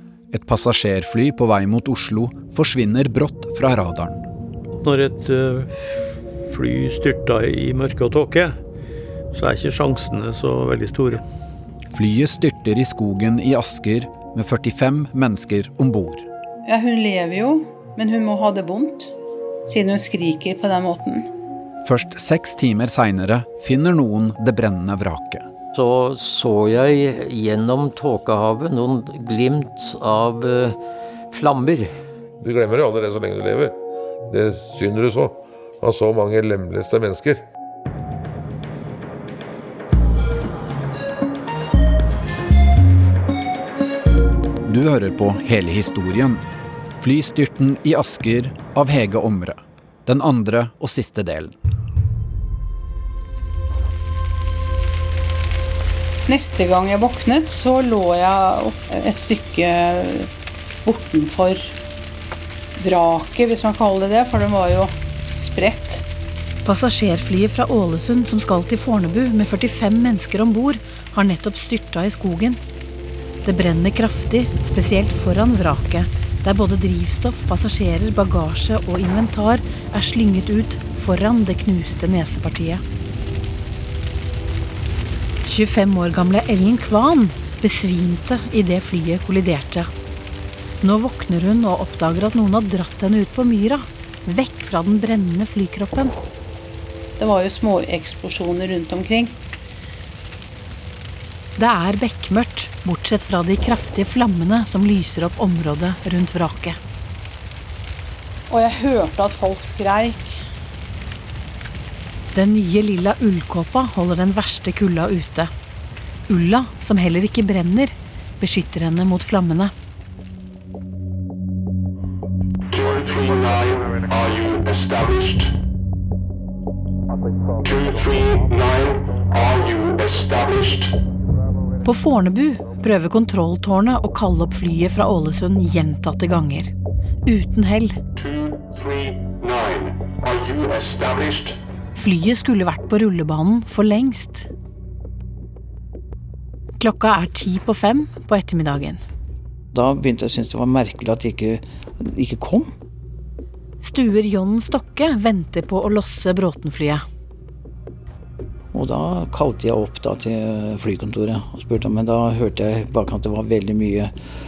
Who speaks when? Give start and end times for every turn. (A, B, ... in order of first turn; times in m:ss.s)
0:00.3-0:04.2 A
0:04.8-0:08.6 B
0:09.3-0:11.2 B
0:11.9-0:16.3 A
0:16.7-0:19.1 C
0:19.7-0:21.3 C
0:21.8-0:25.4 A
0:25.7-0:30.8 D
0:31.3-0:31.9 D
0:32.4-0:33.7 E
0:34.3-0:37.4 E
0:44.6-0:46.4 A
0:47.0-0:51.6 A
0:56.3-1:00.3 C
1:00.8-1:01.7 C
1:02.8-1:06.0 C
1:06.6-1:12.6 F
1:13.4-1:22.8 F
1:25.4-1:29.9 F
1:30.8-1:36.1 F
1:37.2-1:39.4 C
1:41.6-1:46.8 F
1:48.5-1:50.4 C
1:52.3-1:55.5 F
1:56.3-1:59.7 F
2:02.7-2:05.5 G
2:07.6-2:10.9 G
2:11.8-2:16.7 F
2:17.2-2:18.0 F
2:18.2-2:21.6 G
2:22.0-2:24.5 F
2:26.8-2:29.0 F
2:29.7-2:32.7 H
2:33.8-2:37.0 F
2:38.7-2:44.1 H